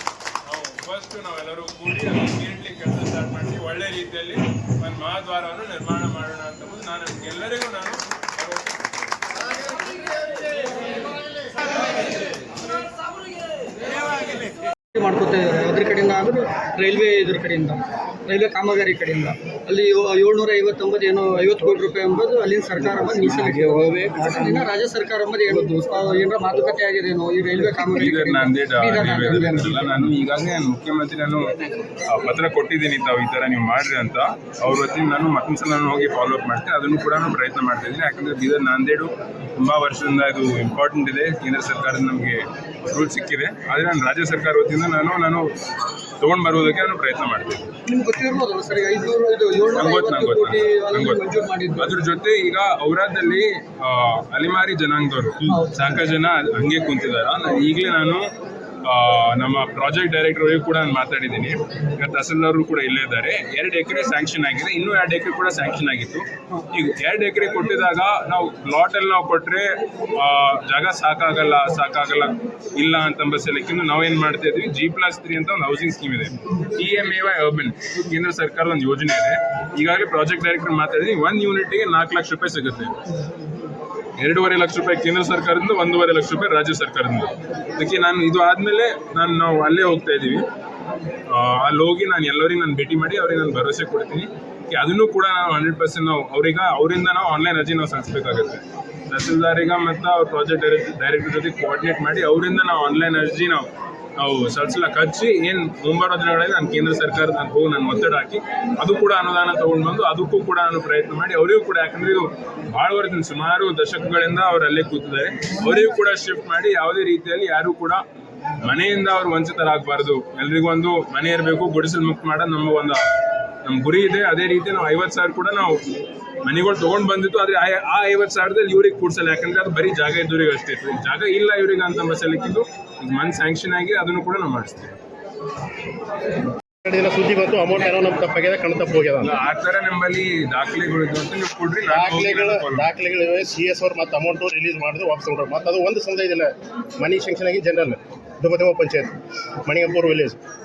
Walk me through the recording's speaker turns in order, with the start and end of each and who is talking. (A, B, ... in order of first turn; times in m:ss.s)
0:00.4-0:08.8 A
0:14.9-0:29.9 B
0:27.8-0:31.5 A
0:32.0-0:45.5 A
0:46.2-0:47.7 A
0:47.8-0:51.9 B
0:49.7-0:51.2 A
0:51.8-0:58.3 A
0:55.5-0:55.9 B
0:58.8-1:22.9 A
1:24.2-1:30.4 A
1:31.3-1:58.0 A
1:58.6-2:03.0 A
2:03.6-2:05.8 A
2:06.4-2:14.9 A
2:16.8-2:19.3 C
2:19.2-2:22.9 A
2:21.9-2:29.1 C
2:29.6-2:30.4 C